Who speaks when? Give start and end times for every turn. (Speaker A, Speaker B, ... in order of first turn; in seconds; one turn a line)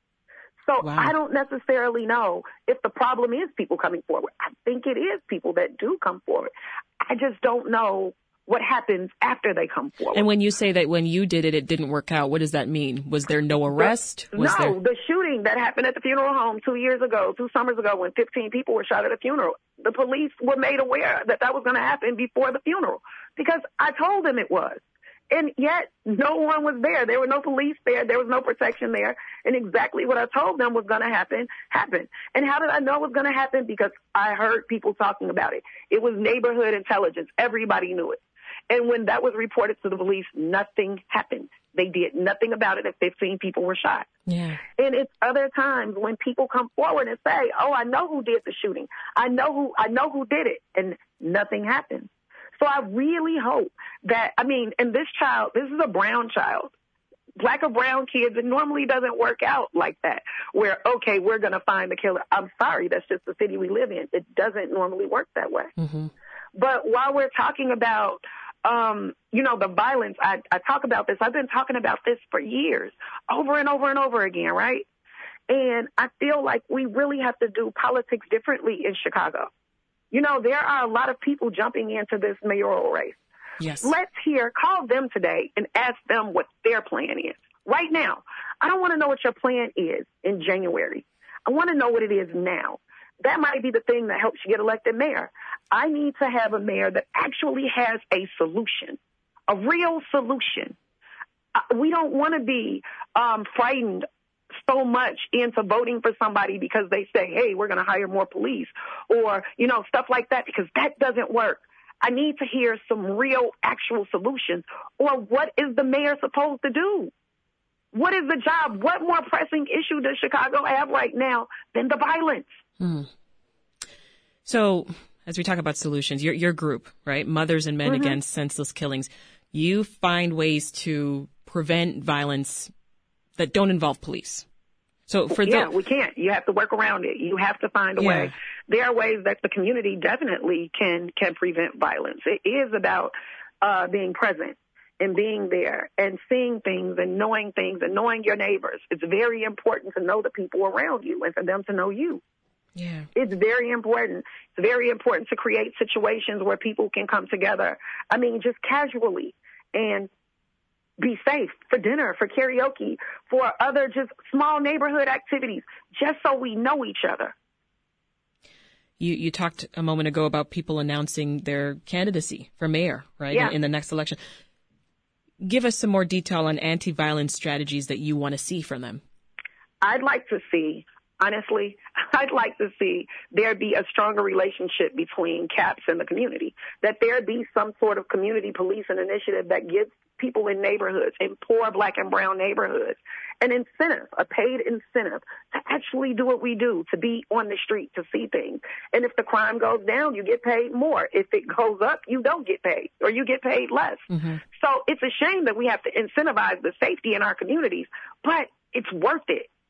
Speaker A: 0.7-10.2
Speaker B: 0.8-1.1
Speaker B: 10.1-14.8
Speaker A: 13.8-38.2
Speaker A: 38.7-44.1
Speaker B: 44.3-44.6
Speaker A: 44.8-56.7
Speaker A: 57.4-65.7
Speaker B: 65.8-66.1
Speaker A: 66.5-74.9
Speaker A: 75.5-79.5
Speaker A: 80.1-83.2
Speaker B: 83.6-84.0
Speaker A: 83.8-99.0
Speaker A: 99.5-100.8
Speaker A: 101.6-104.1
Speaker A: 104.6-117.1
Speaker A: 117.9-122.5
Speaker B: 122.8-123.1
Speaker B: 124.5-132.7
Speaker A: 127.9-128.2
Speaker B: 133.4-134.5
Speaker B: 135.1-135.7
Speaker A: 135.3-152.2
Speaker B: 138.0-138.3
Speaker B: 152.8-153.1
Speaker A: 153.2-160.1
Speaker A: 161.0-167.3
Speaker B: 169.0-174.2
Speaker B: 175.4-179.0
Speaker A: 179.8-209.5
Speaker B: 204.1-204.4